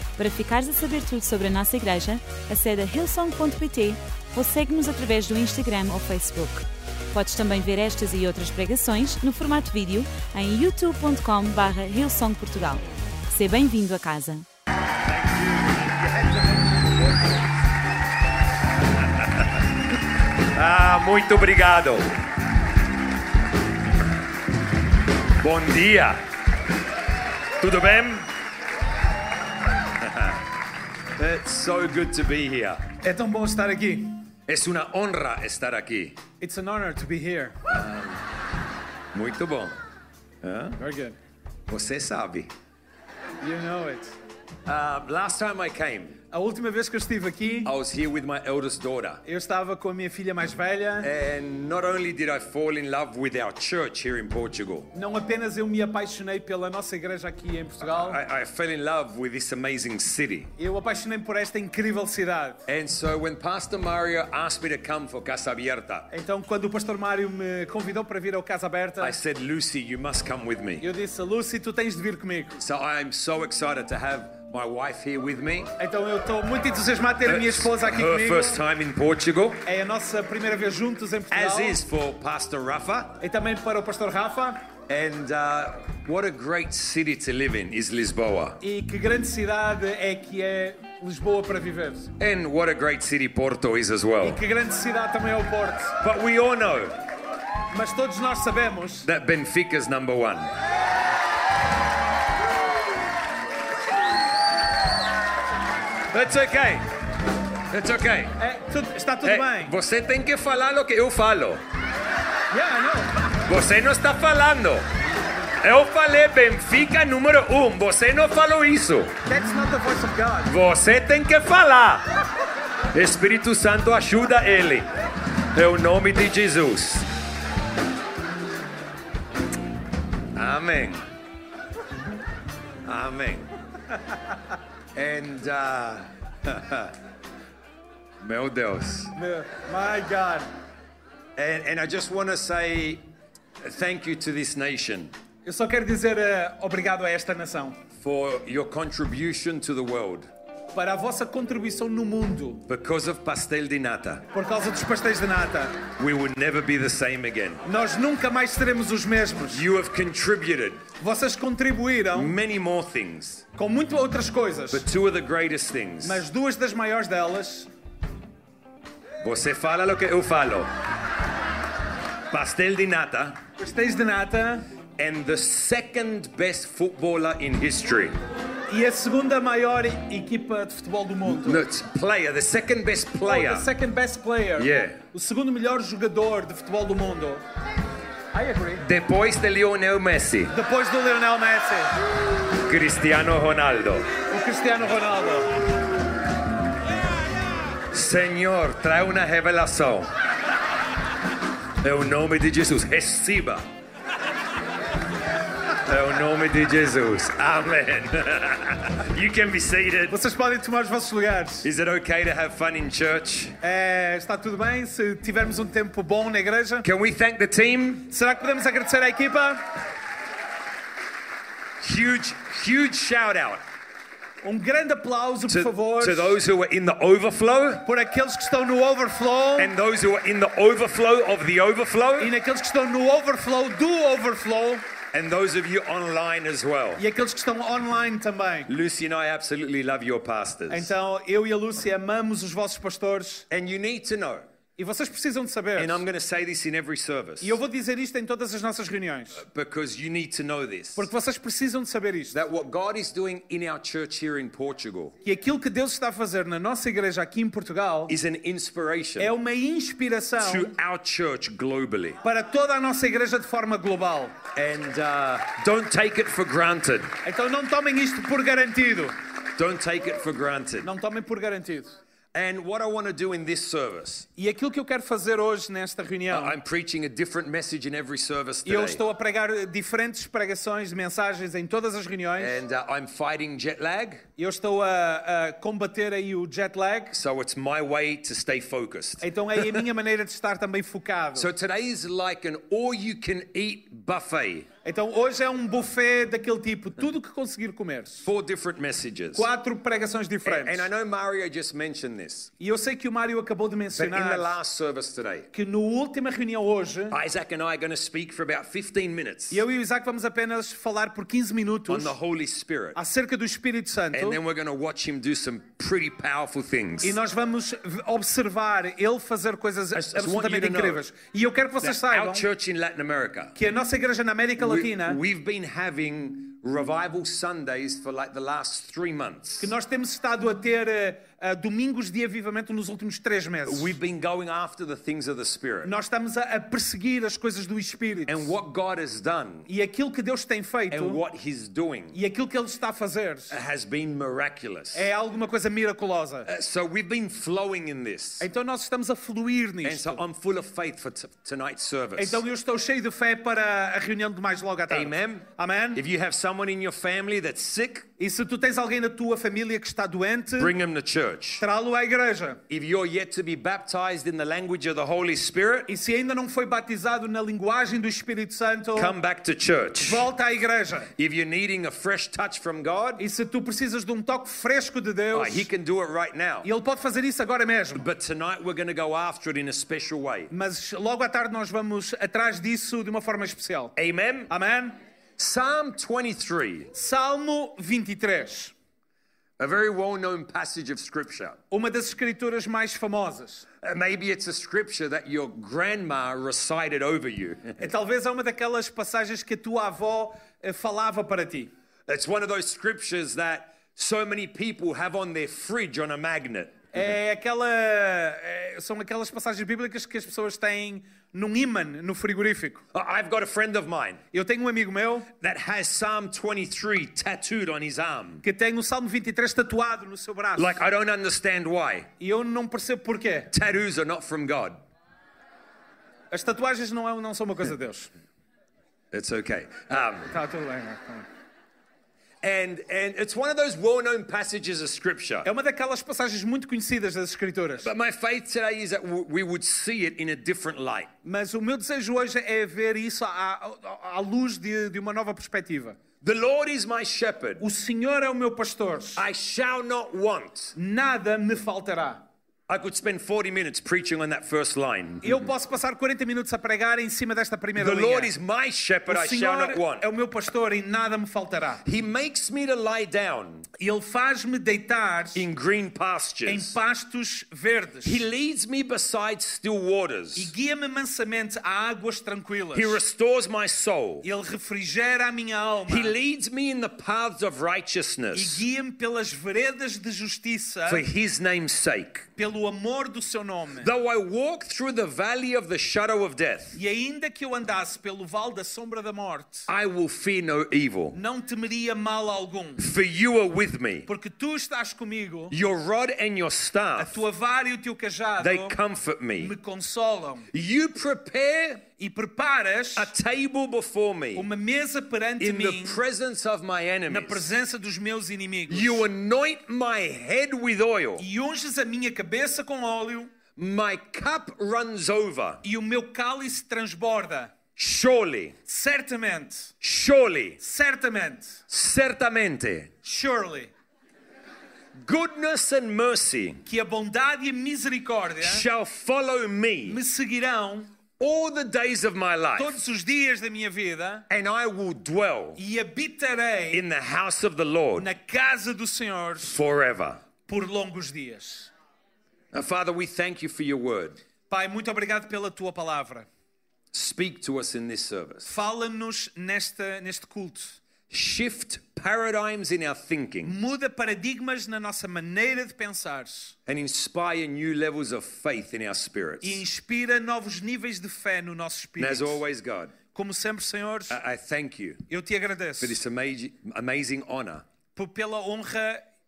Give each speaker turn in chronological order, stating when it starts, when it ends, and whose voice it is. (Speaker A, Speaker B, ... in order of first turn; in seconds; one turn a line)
Speaker A: 0.2-14.4
Speaker B: 15.1-16.2
Speaker B: 20.4-22.1
Speaker B: 25.4-26.2
Speaker B: 27.6-28.3
Speaker B: 30.0-30.5
Speaker B: 31.2-32.9
Speaker C: 33.0-34.2
Speaker B: 34.5-36.2
Speaker C: 36.4-37.6
Speaker B: 37.7-38.2
Speaker B: 39.1-39.7
Speaker B: 40.4-40.8
Speaker C: 40.8-41.1
Speaker B: 41.7-42.5
Speaker C: 43.4-44.1
Speaker B: 44.6-46.2
Speaker C: 46.3-47.7
Speaker B: 47.6-49.2
Speaker C: 49.2-51.1
Speaker B: 51.0-54.9
Speaker C: 54.9-58.2
Speaker B: 57.8-60.5
Speaker C: 60.6-62.6
Speaker B: 62.7-66.1
Speaker C: 66.1-69.1
Speaker B: 69.0-70.9
Speaker C: 70.8-72.6
Speaker B: 72.6-75.7
Speaker C: 75.8-78.6
Speaker B: 77.2-79.6
Speaker C: 79.6-81.8
Speaker B: 81.3-83.2
Speaker C: 83.2-84.7
Speaker B: 84.9-88.6
Speaker C: 88.6-92.1
Speaker B: 92.2-94.4
Speaker C: 94.2-96.0
Speaker B: 96.0-97.0
Speaker C: 97.7-99.1
Speaker B: 99.0-100.5
Speaker B: 106.1-106.9
Speaker B: 107.7-108.3
Speaker C: 108.4-109.7
Speaker B: 109.2-111.6
Speaker C: 112.5-113.1
Speaker B: 113.5-114.8
Speaker B: 115.6-119.2
Speaker C: 119.2-120.5
Speaker B: 120.5-122.1
Speaker B: 122.9-124.9
Speaker B: 125.5-127.1
Speaker B: 130.3-131.0
Speaker B: 132.8-133.5
Speaker B: 134.9-136.9
Speaker B: 138.2-139.2
Speaker C: 139.1-140.5
Speaker B: 141.3-143.0
Speaker B: 143.6-145.1
Speaker C: 145.4-147.8
Speaker B: 148.0-150.3
Speaker C: 150.7-152.6
Speaker B: 152.7-154.3
Speaker C: 154.3-155.8
Speaker B: 155.9-157.6
Speaker C: 157.6-159.6
Speaker B: 159.5-160.8
Speaker C: 161.0-162.4
Speaker B: 162.1-163.4
Speaker C: 163.5-164.8
Speaker B: 164.7-166.2
Speaker C: 166.0-167.7
Speaker B: 169.2-170.7
Speaker B: 172.3-173.4
Speaker C: 173.6-174.6
Speaker B: 175.0-178.2
Speaker C: 178.7-181.6
Speaker B: 181.2-183.7
Speaker C: 183.2-187.4
Speaker B: 184.6-185.0
Speaker C: 188.3-188.8
Speaker B: 188.8-190.5
Speaker C: 190.5-191.9
Speaker B: 192.5-194.1
Speaker C: 194.3-195.6
Speaker B: 197.9-200.1
Speaker B: 201.8-203.6
Speaker B: 205.7-210.2
Speaker C: 210.1-211.7
Speaker B: 211.6-213.6
Speaker C: 213.6-216.8
Speaker B: 216.8-218.1
Speaker C: 218.1-219.7
Speaker B: 221.8-223.6
Speaker C: 224.4-226.3
Speaker B: 225.5-227.8
Speaker C: 227.8-229.7
Speaker B: 229.6-232.3
Speaker C: 232.2-234.8
Speaker B: 235.1-237.0
Speaker C: 237.0-238.7
Speaker B: 238.7-240.9
Speaker C: 240.7-243.4
Speaker B: 243.5-244.4
Speaker C: 244.8-246.0
Speaker B: 245.8-247.6
Speaker C: 247.4-249.4
Speaker B: 249.3-251.1
Speaker C: 250.9-252.4
Speaker B: 252.3-255.1
Speaker C: 255.2-258.1
Speaker B: 258.1-259.3
Speaker C: 259.2-260.7
Speaker B: 260.4-262.2
Speaker C: 262.2-264.4
Speaker B: 264.5-267.1
Speaker C: 267.2-269.1
Speaker B: 269.5-270.9
Speaker C: 270.8-271.9
Speaker B: 272.3-274.3
Speaker C: 274.4-276.6
Speaker B: 276.3-279.0
Speaker C: 278.6-282.6
Speaker B: 282.4-284.2
Speaker C: 284.4-287.1
Speaker B: 287.1-289.8
Speaker C: 289.2-291.5
Speaker B: 291.3-294.7
Speaker C: 294.8-298.3
Speaker B: 298.2-299.5
Speaker C: 299.3-300.9
Speaker B: 300.4-302.5
Speaker C: 302.6-304.5
Speaker B: 303.9-305.5
Speaker C: 305.5-307.2
Speaker B: 307.1-309.6
Speaker C: 309.5-312.1
Speaker B: 311.9-313.0
Speaker C: 312.9-314.4
Speaker B: 314.1-317.2
Speaker C: 317.0-322.4
Speaker B: 319.9-321.0
Speaker B: 321.8-323.5
Speaker C: 323.6-325.2
Speaker B: 324.6-329.7
Speaker C: 329.6-333.9
Speaker B: 333.6-335.9
Speaker C: 335.8-338.5
Speaker B: 338.3-339.7
Speaker C: 339.7-341.2
Speaker B: 340.9-342.2
Speaker C: 342.1-343.5
Speaker B: 343.5-345.1
Speaker C: 344.9-346.5
Speaker B: 346.4-348.5
Speaker C: 348.4-350.2
Speaker B: 349.8-352.4
Speaker C: 352.1-356.0
Speaker B: 354.9-358.1
Speaker C: 358.2-360.7
Speaker B: 360.6-361.6
Speaker C: 361.6-362.6
Speaker B: 362.7-365.9
Speaker C: 365.9-369.1
Speaker B: 368.9-370.3
Speaker C: 370.0-371.1
Speaker B: 371.1-373.2
Speaker C: 373.2-375.7
Speaker B: 375.3-376.7
Speaker C: 376.6-378.1
Speaker B: 377.9-380.5
Speaker C: 380.5-383.9
Speaker B: 383.9-384.5
Speaker C: 384.5-385.0
Speaker B: 385.4-386.9
Speaker C: 386.9-388.7
Speaker B: 389.6-391.6
Speaker C: 391.7-393.6
Speaker B: 393.8-397.9
Speaker C: 397.8-401.7
Speaker B: 402.1-407.1
Speaker C: 406.9-412.8
Speaker B: 412.9-414.2
Speaker C: 414.3-415.3
Speaker B: 415.4-418.4
Speaker C: 418.4-420.8
Speaker B: 420.6-422.1
Speaker C: 422.2-423.5
Speaker B: 423.5-424.8
Speaker C: 426.3-428.1
Speaker B: 429.1-430.3
Speaker C: 430.3-431.3
Speaker B: 432.4-435.5
Speaker C: 435.4-437.9
Speaker B: 437.8-441.1
Speaker C: 441.2-446.0
Speaker B: 446.2-447.6
Speaker C: 447.6-449.2
Speaker B: 449.2-450.7
Speaker C: 450.8-452.2
Speaker B: 452.7-455.5
Speaker C: 455.2-458.3
Speaker B: 457.8-460.1
Speaker C: 459.1-461.8
Speaker B: 461.8-463.7
Speaker C: 463.8-465.4
Speaker B: 465.3-466.7
Speaker C: 466.4-468.2
Speaker B: 468.0-470.5
Speaker C: 470.3-473.0
Speaker B: 472.7-474.2
Speaker C: 474.2-476.1
Speaker B: 475.9-478.6
Speaker C: 478.3-481.1
Speaker B: 480.9-482.3
Speaker C: 482.4-483.9
Speaker B: 483.8-486.8
Speaker C: 486.7-489.7
Speaker B: 489.7-491.2
Speaker C: 491.1-492.8
Speaker B: 492.8-494.1
Speaker C: 494.1-495.5
Speaker B: 495.5-497.2
Speaker C: 497.0-498.8
Speaker B: 498.4-499.5
Speaker C: 499.4-500.5
Speaker B: 500.5-501.8
Speaker C: 502.0-503.1
Speaker B: 502.9-504.5
Speaker C: 504.3-506.0
Speaker B: 505.4-507.4
Speaker C: 507.1-509.1
Speaker B: 508.7-511.2
Speaker C: 511.2-513.3
Speaker B: 513.5-515.6
Speaker C: 515.6-517.5
Speaker B: 517.8-518.6
Speaker C: 518.6-519.7
Speaker B: 519.8-520.6
Speaker C: 520.6-521.6
Speaker B: 521.7-522.9
Speaker C: 523.0-523.7
Speaker B: 524.9-526.6
Speaker C: 526.6-528.6
Speaker B: 528.4-530.0
Speaker C: 529.8-530.9
Speaker B: 531.2-532.8
Speaker C: 532.5-534.3
Speaker B: 534.3-535.6
Speaker C: 535.6-536.8
Speaker B: 536.7-538.1
Speaker C: 538.0-539.6
Speaker B: 539.5-540.2
Speaker C: 540.5-541.7
Speaker B: 542.5-544.2
Speaker C: 544.5-546.3
Speaker B: 546.9-548.5
Speaker C: 548.5-550.8
Speaker B: 551.1-553.5
Speaker C: 553.4-556.5
Speaker B: 556.6-559.6
Speaker C: 559.4-562.4
Speaker B: 562.0-562.9
Speaker C: 563.1-564.2
Speaker B: 564.1-565.0
Speaker C: 565.1-566.0
Speaker B: 565.8-567.6
Speaker C: 567.9-569.0